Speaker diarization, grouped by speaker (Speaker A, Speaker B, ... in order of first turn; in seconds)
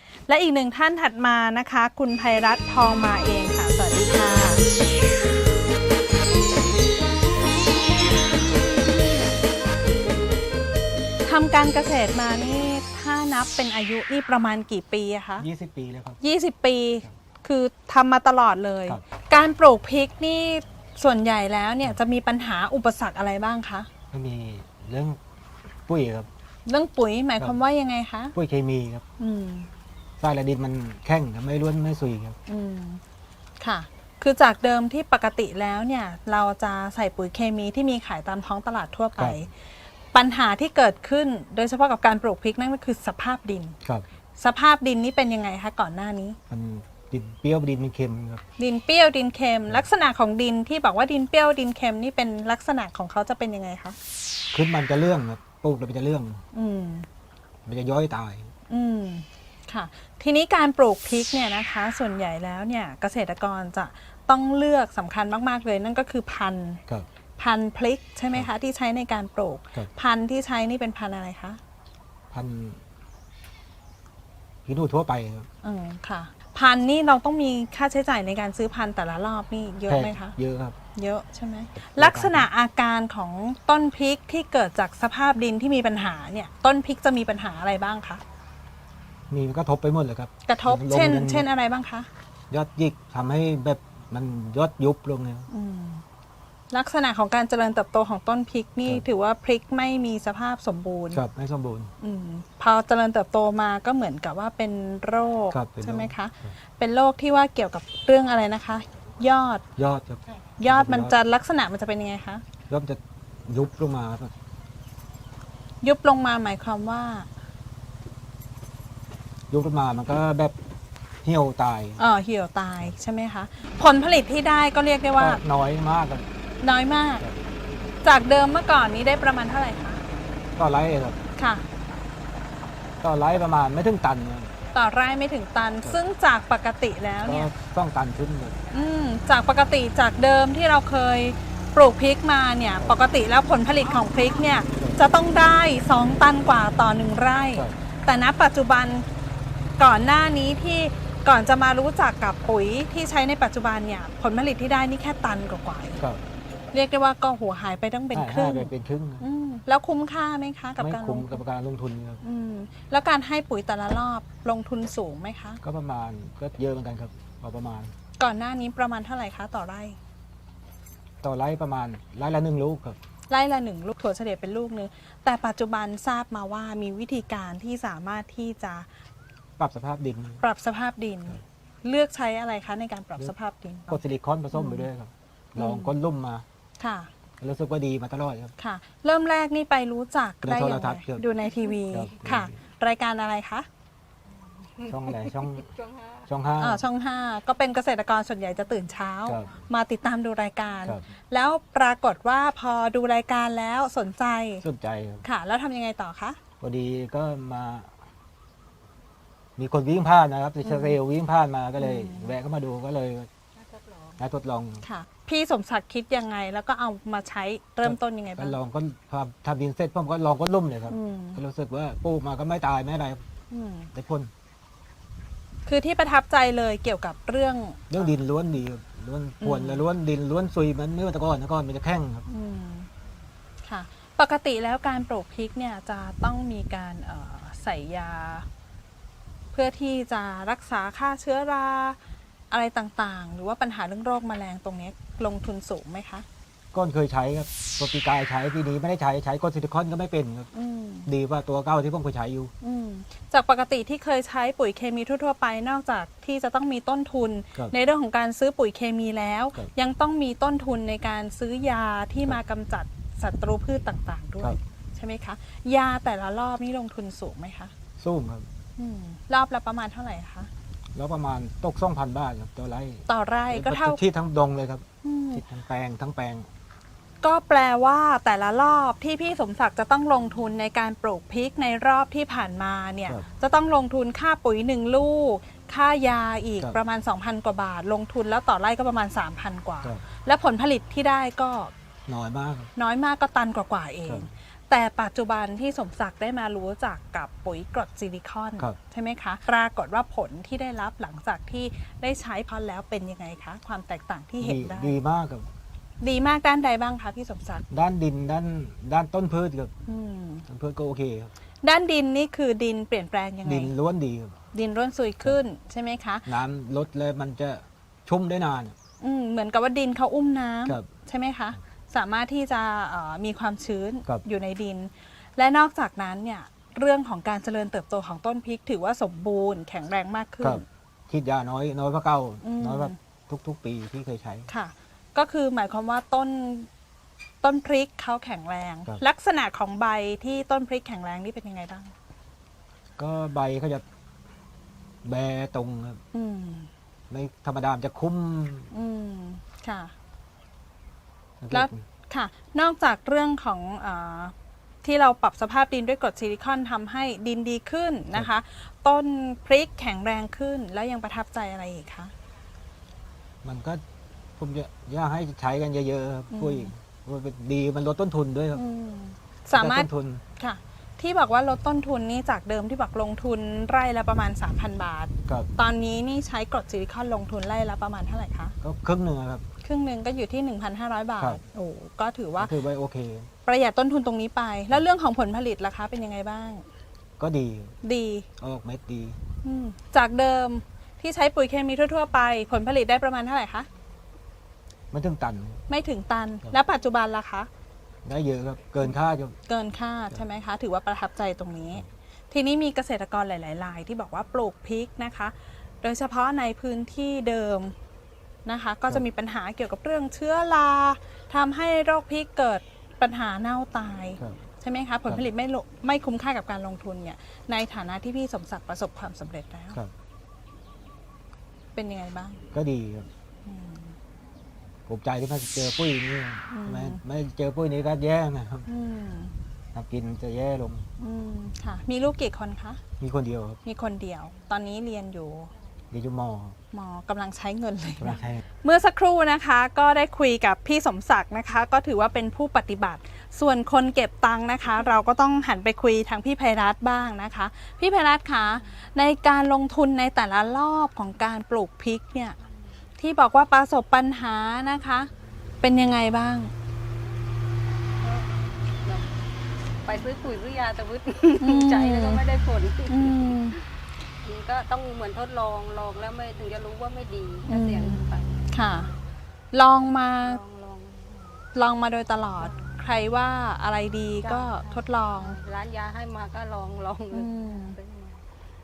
Speaker A: 0.3-4.6, 11.2-15.4, 16.2-23.9, 26.6-28.3, 29.2-29.7, 32.5-33.0, 33.6-39.5, 40.1-43.8, 44.4-46.4, 48.6-54.0, 56.5-57.1, 58.7-66.8, 67.4-71.6, 75.6-80.3, 80.9-88.2, 90.5-92.1, 95.5-96.0, 96.7-101.2, 102.0-109.6, 110.6-112.4, 115.8-117.3, 122.0-125.4, 126.6-127.2, 128.0-130.0, 131.4-131.6, 134.7-137.5, 138.7-149.1, 149.8-156.0, 156.7-161.4, 162.2-165.6, 168.2-170.0, 173.3-178.9, 180.4-184.0, 184.5-184.9, 185.6-185.9, 186.8-187.1, 188.6-193.7, 196.6-204.6, 205.2-206.4, 210.6-211.0, 211.8-212.3, 214.8-218.6, 220.9-221.4, 223.5-223.9, 225.7-228.1, 229.4-229.8, 232.3-232.9, 233.6-238.4, 239.5-242.0, 242.5-246.2, 250.5-251.1, 252.6-267.7, 268.8-270.5, 273.1-274.0, 275.0-275.4, 277.2-291.7, 292.8-304.9, 306.0-307.6, 309.9-310.4, 311.6-313.7, 314.5-316.3, 319.0-330.6, 332.4-332.9, 334.5-336.7, 337.4-341.9, 346.1-346.7, 348.7-349.9, 351.5-362.1, 366.3-366.7, 368.5-378.5, 379.6-382.5, 383.4-386.6, 387.8-388.3, 389.4-393.7, 395.7-397.5, 399.5-407.7, 408.4-419.8, 421.7-422.4, 423.4-423.9, 426.5-427.0, 428.6-429.3, 431.0-432.8, 433.6-435.5, 436.7-452.4, 453.0-455.1, 455.6-456.5, 461.4-462.2, 462.9-463.6, 467.5-468.9, 469.5-470.4, 471.5-475.4, 477.1-477.8
Speaker B: 15.4-16.2, 24.1-25.2, 25.9-26.3, 28.3-29.0, 30.2-32.4, 39.2-39.5, 46.5-48.4, 54.5-56.4, 57.6-58.5, 72.3-72.8, 74.6-75.5, 79.9-80.8, 81.8-82.5, 89.3-91.5, 92.5-95.5, 101.1-101.9, 105.5-106.5, 109.8-111.2, 112.7-114.3, 119.5-120.5, 121.2-122.0, 125.2-126.2, 130.6-131.2, 133.0-134.5, 137.2-138.6, 158.1-159.2, 160.8-162.2, 165.6-167.9, 171.2-173.0, 179.6-180.4, 183.9-186.4, 187.4-188.5, 190.4-191.3, 191.8-192.5, 194.8-195.7, 196.2-196.8, 199.2-199.5, 204.6-205.2, 206.6-207.9, 209.6-213.3, 214.2-214.8, 217.8-223.2, 223.9-224.3, 227.9-232.2, 246.7-250.5, 251.1-252.5, 268.0-268.5, 270.9-276.5, 292.1-292.7, 304.4-305.5, 307.7-309.7, 310.5-311.3, 313.4-314.4, 316.2-318.7, 330.4-334.5, 343.0-343.8, 345.0-346.0, 347.1-348.7, 351.4-351.8, 363.4-363.8, 364.4-368.6, 369.5-370.2, 378.6-379.4, 382.4-383.3, 387.2-387.8, 388.4-389.2, 394.9-395.6, 398.0-399.4, 422.5-423.1, 424.9-428.7, 429.7-430.9, 433.0-433.6, 435.9-436.6, 438.0-438.4
Speaker C: 458.0-459.1, 459.8-463.6, 464.2-469.1, 470.2-471.4, 472.4-472.8, 474.2-478.2